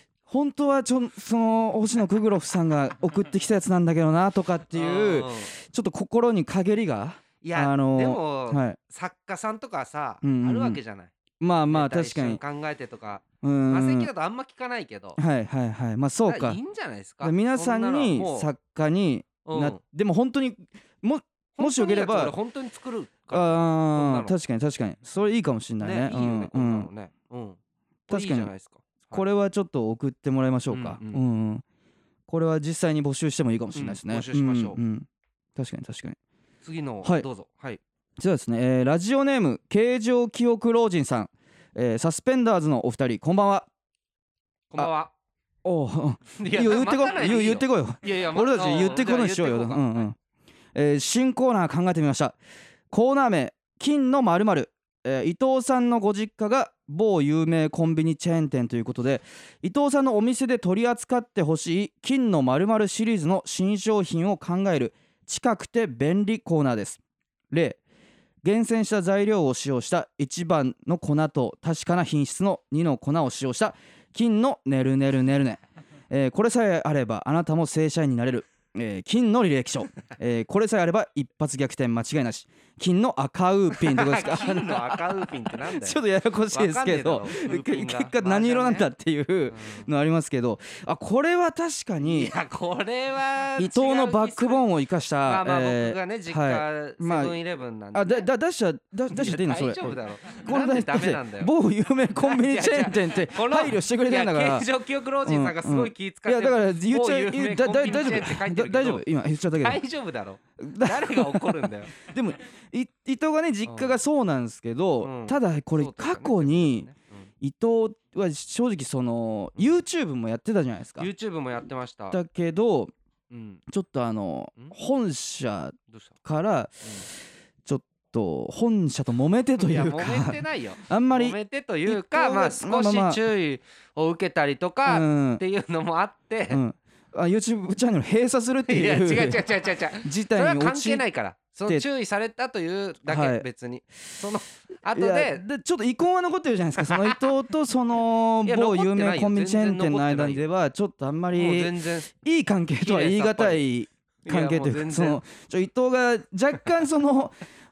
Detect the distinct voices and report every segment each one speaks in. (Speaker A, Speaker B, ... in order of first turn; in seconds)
Speaker A: 0.2-8.8, 10.2-10.8, 11.4-12.4, 13.4-14.1, 15.2-16.6, 17.2-22.3, 23.3-26.9, 28.1-28.5, 29.1-31.6, 32.3-36.2, 38.2-43.7, 45.6-50.1, 50.7-52.3, 52.9-67.0, 67.5-67.8, 68.4-92.3, 93.6-97.4, 97.9-104.7, 105.2-109.8, 110.6-116.9, 117.4-121.1, 122.1-122.9, 123.7-126.8, 127.6-133.2, 134.8-135.4, 136.5-139.4, 140.0-141.0, 143.1-143.4, 144.9-157.3
Speaker B: 4.7-5.5, 7.4-11.1, 11.7-15.2, 16.2-18.5, 19.4-19.8, 21.6-24.3, 25.8-29.2, 30.7-31.2, 33.7-34.8, 36.6-37.8, 44.7-45.1, 46.4-50.0, 83.8-86.0, 86.5-88.9, 89.5-89.9, 92.0-94.7, 95.2-98.3, 99.1-101.5, 102.2-109.0, 109.6-111.9, 113.7-114.0, 115.0-117.3, 121.0-122.2, 123.3-123.6, 129.6-136.6, 138.7-145.4, 146.9-147.2, 148.4-150.4, 151.3-152.1, 152.8-153.6, 154.2-155.2